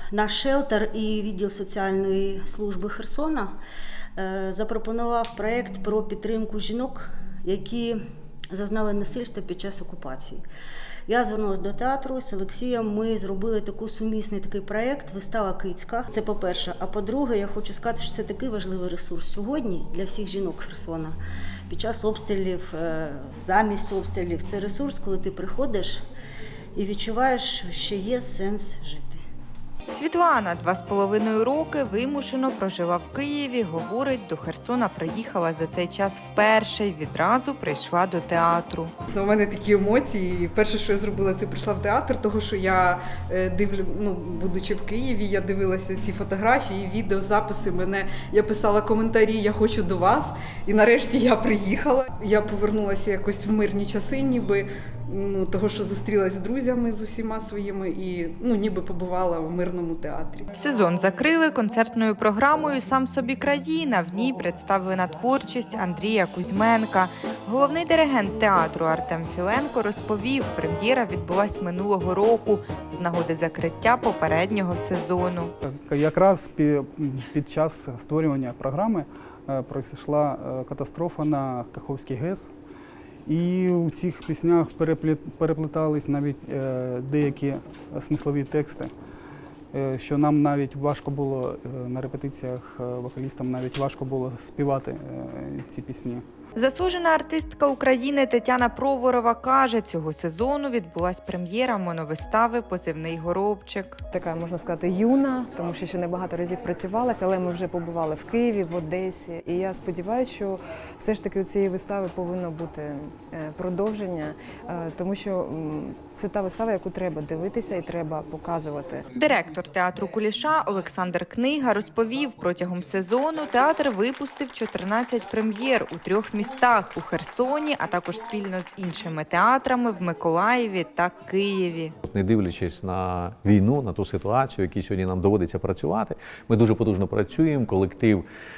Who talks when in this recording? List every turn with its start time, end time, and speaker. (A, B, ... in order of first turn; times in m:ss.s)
0:00.1-0:03.5 A
0:04.2-0:08.0 A
0:08.5-0:10.4 A
0:11.1-0:21.2 A
0:21.7-0:26.0 A
0:26.7-0:29.2 A
0:29.9-0:38.9 B
0:39.1-1:00.4 C
1:00.5-1:15.5 B
1:15.6-1:22.5 D
1:23.2-1:28.9 D
1:29.7-1:36.2 D
1:36.6-1:44.0 B
1:44.1-1:59.1 E
1:59.1-2:11.9 B
2:12.1-2:18.2 F